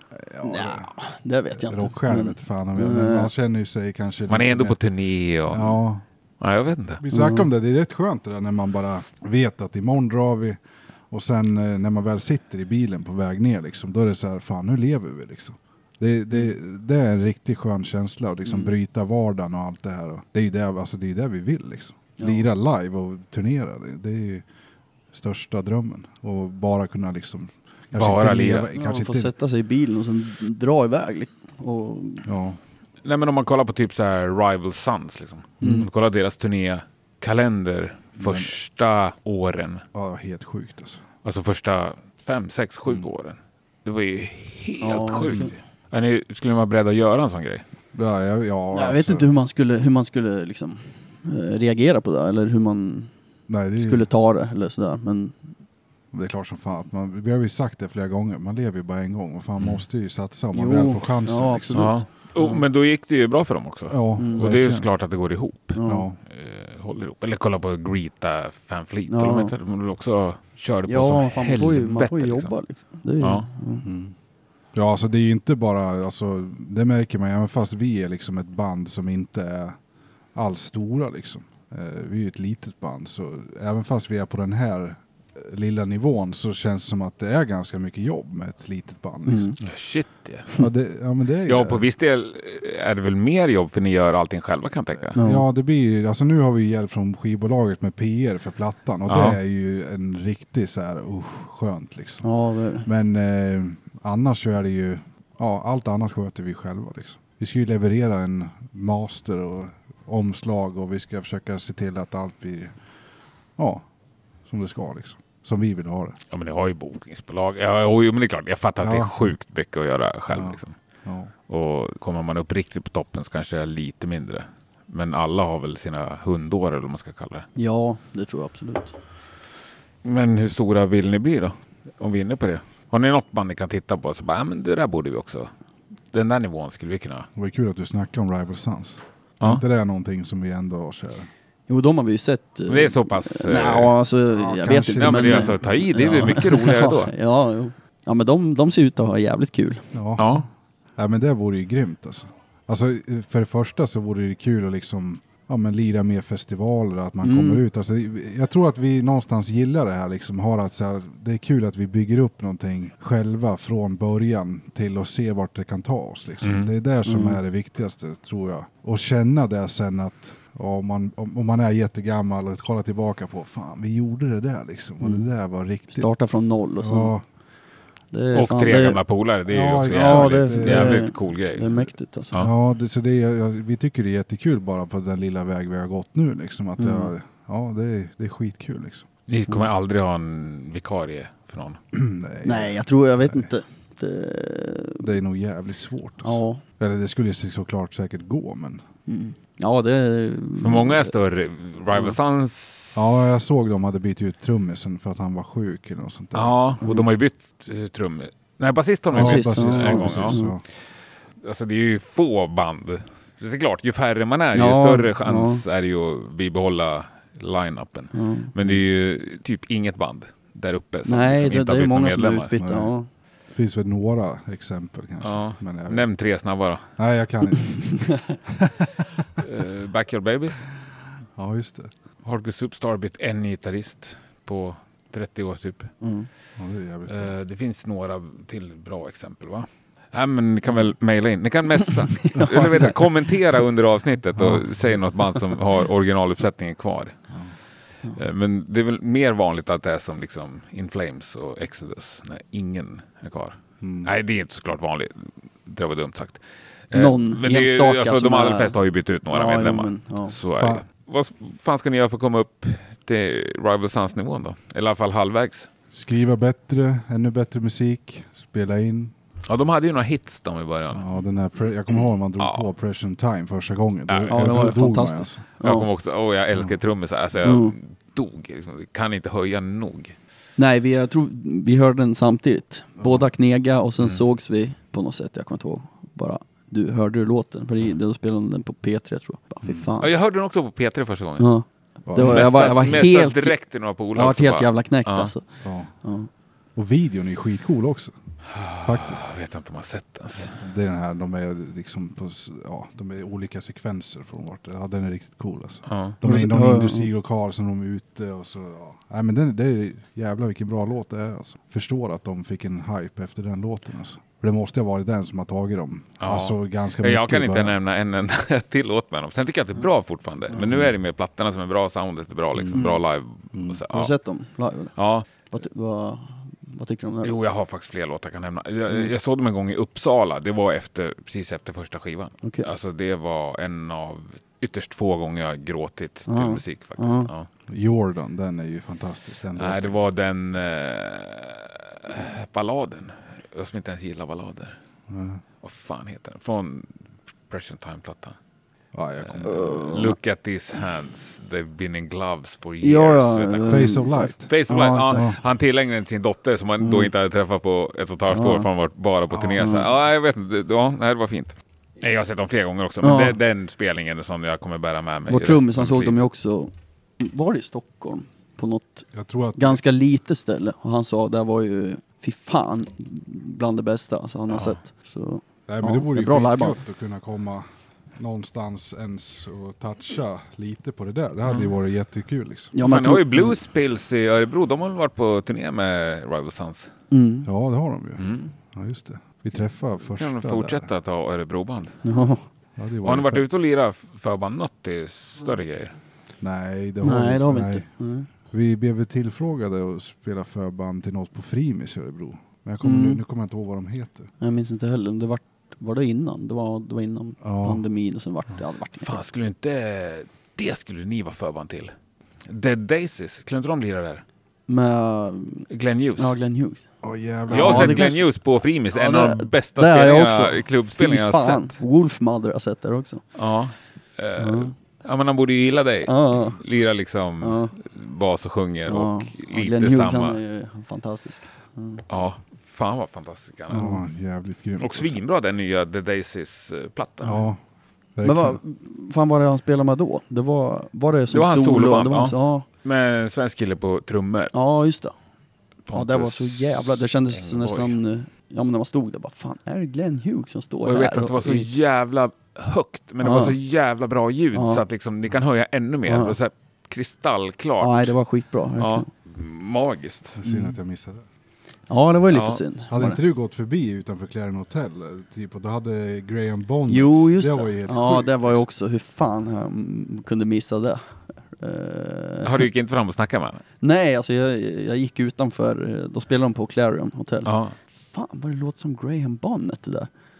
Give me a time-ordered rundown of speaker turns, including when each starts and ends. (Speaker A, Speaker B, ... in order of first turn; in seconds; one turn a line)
Speaker A: 0.1-0.9
Speaker B: 0.4-3.3
Speaker A: 1.5-4.8
Speaker C: 4.3-5.8
Speaker A: 5.5-6.0
Speaker C: 6.4-7.0
Speaker A: 7.0-10.6
Speaker B: 7.1-7.5
Speaker A: 11.1-24.4
Speaker B: 18.4-18.7
Speaker A: 25.1-29.3
Speaker C: 27.9-28.7
Speaker B: 28.7-32.3
Speaker A: 32.2-32.6
Speaker C: 33.0-39.8
Speaker B: 35.6-35.9
Speaker A: 38.2-38.6
Speaker A: 39.9-41.0
Speaker C: 41.2-47.6
Speaker B: 44.8-45.5
Speaker A: 47.9-49.3
Speaker B: 48.7-53.1
Speaker A: 53.5-54.1
Speaker B: 53.8-55.4
Speaker A: 56.1-61.9
Speaker B: 60.5-62.0
Speaker C: 61.7-72.5
Speaker A: 63.9-64.9
Speaker B: 64.2-64.5
Speaker B: 65.7-66.1
Speaker A: 65.8-66.2
Speaker B: 69.1-69.5
Speaker B: 70.9-73.8
Speaker C: 73.2-73.5
Speaker A: 73.8-74.1
Speaker A: 74.7-79.8
Speaker A: 80.3-89.5
Speaker B: 89.3-89.6
Speaker C: 89.6-90.5
Speaker A: 90.6-91.8
Speaker C: 91.5-95.2
Speaker B: 95.1-95.4
Speaker A: 95.2-102.2
Speaker C: 99.1-99.4
Speaker B: 102.2-102.9
Speaker A: 102.8-112.7
Speaker A: 113.6-113.8
Speaker A: 114.5-116.2
Speaker C: 116.3-120.7
Speaker A: 118.8-119.3
Speaker A: 120.3-121.3
Speaker C: 121.5-127.5
Speaker B: 127.5-128.9
Speaker C: 130.0-135.5
Speaker C: 136.1-137.3
Speaker A: 137.3-141.3
Speaker B: 141.7-149.9
Speaker C: 142.7-144.0
Speaker A: 144.3-145.6
Speaker C: 145.0-147.1
Speaker A: 149.9-150.4
Speaker C: 150.2-150.5
Speaker A: 151.0-177.2
Speaker B: 157.2-157.6
Speaker C: 166.4-166.7
Speaker B: 167.1-167.4
Speaker B: 175.9-177.1
Speaker B: 178.1-179.0
Speaker C: 178.3-182.5
Speaker A: 179.5-181.0
Speaker B: 179.9-182.5
Speaker A: 182.4-189.1
Speaker B: 186.8-187.1
Speaker C: 189.3-191.8
Speaker A: 191.9-193.5
Speaker B: 192.4-195.1
Speaker A: 195.0-198.8
Speaker B: 196.2-196.6
Speaker B: 199.1-201.1
Speaker C: 200.6-203.3
Speaker B: 201.9-202.2
Speaker A: 202.9-206.5
Speaker C: 206.3-210.4
Speaker B: 206.8-207.1
Speaker A: 209.1-210.6
Speaker B: 209.1-210.5
Speaker C: 211.4-222.5
Speaker B: 214.5-215.6
Speaker B: 218.1-218.5
Speaker B: 221.1-223.1
Speaker A: 222.6-222.9
Speaker A: 223.5-226.1
Speaker C: 225.2-226.8
Speaker A: 227.0-229.0
Speaker B: 227.9-228.2
Speaker C: 229.4-230.7
Speaker A: 231.4-231.9
Speaker C: 232.2-235.9
Speaker B: 236.0-236.3
Speaker A: 236.6-237.3
Speaker C: 237.1-247.2
Speaker B: 242.3-243.1
Speaker A: 244.3-245.2
Speaker C: 248.1-265.7
Speaker A: 253.8-254.1
Speaker B: 256.9-260.4
Speaker A: 260.6-260.8
Speaker A: 265.9-269.1
Speaker C: 269.4-271.0
Speaker A: 270.9-275.4
Speaker C: 272.4-272.6
Speaker C: 274.1-274.7
Speaker B: 274.3-275.9
Speaker C: 275.6-280.1
Speaker B: 277.4-277.7
Speaker B: 280.6-290.1
Speaker A: 283.0-283.3
Speaker A: 289.6-289.9
Speaker C: 290.0-291.5
Speaker B: 291.4-293.6
Speaker A: 292.0-292.8
Speaker C: 292.1-295.3
Speaker B: 294.1-295.4
Speaker A: 295.6-295.9
Speaker B: 296.0-296.3
Speaker A: 296.7-298.1
Speaker C: 298.4-300.6
Speaker A: 298.8-299.3
Speaker A: 300.5-317.8
Speaker C: 305.9-306.2
Speaker B: 306.2-307.1
Speaker C: 316.2-324.1
Speaker A: 320.5-320.9
Speaker A: 322.5-322.9
Speaker A: 323.5-323.8
Speaker B: 323.9-324.9
Speaker C: 324.9-325.3
Speaker B: 325.5-327.3
Speaker C: 327.2-337.5
Speaker B: 336.3-337.3
Speaker A: 337.7-339.9
Speaker C: 339.6-344.8
Speaker A: 345.1-345.4
Speaker C: 345.6-347.0
Speaker C: 347.5-348.4
Speaker A: 348.9-349.9
Speaker C: 349.2-353.9
Speaker B: 349.4-350.1
Speaker B: 352.8-355.3
Speaker A: 353.6-355.4
Speaker C: 354.4-366.2
Speaker B: 356.8-357.1
Speaker B: 358.3-358.7
Speaker B: 359.5-359.9
Speaker B: 363.0-363.4
Speaker B: 365.3-376.8
Speaker A: 369.1-369.8
Speaker C: 374.5-374.8
Speaker A: 375.7-377.6
Speaker A: 378.1-382.8
Speaker B: 382.7-383.6
Speaker C: 382.8-386.9
Speaker B: 387.1-387.5
Speaker A: 387.4-390.9
Speaker C: 388.2-388.5
Speaker C: 390.2-392.0
Speaker B: 392.0-392.4
Speaker A: 392.8-393.4
Speaker C: 393.0-395.9
Speaker A: 396.4-397.9
Speaker B: 397.0-398.3
Speaker A: 398.5-404.3
Speaker B: 402.8-403.2
Speaker B: 404.4-409.2
Speaker A: 407.4-407.8
Speaker C: 409.0-411.9
Speaker C: 412.5-414.2
Speaker B: 414.7-416.9
Speaker C: 415.7-416.4
Speaker A: 417.0-418.2
Speaker C: 417.5-421.8
Speaker B: 417.5-418.2
Speaker B: 418.9-423.2
Speaker C: 423.3-430.4
Speaker B: 424.4-424.7
Speaker B: 426.1-426.6
Speaker B: 427.4-427.7
Speaker B: 428.9-432.0
Speaker C: 432.1-434.0
Speaker A: 433.7-435.2
Speaker C: 434.8-437.4
Speaker A: 437.2-437.6
Speaker A: 438.1-438.6
Speaker B: 438.2-442.7
Speaker C: 441.3-444.5
Speaker B: 444.5-445.1
Speaker C: 445.9-448.0
Speaker B: 445.9-451.7
Speaker C: 450.8-458.1
Speaker B: 453.2-453.6
Speaker B: 454.5-454.8
Speaker B: 456.1-456.4
Speaker B: 457.8-459.1
Speaker C: 458.8-460.4
Speaker A: 460.4-461.2
Speaker B: 460.4-460.7
Speaker B: 461.9-463.2
Speaker C: 462.3-462.6
Speaker A: 462.9-468.6
Speaker B: 466.9-472.6
Speaker C: 472.4-473.6
Speaker B: 473.8-477.5
Speaker C: 477.4-477.8
Speaker B: 478.1-480.1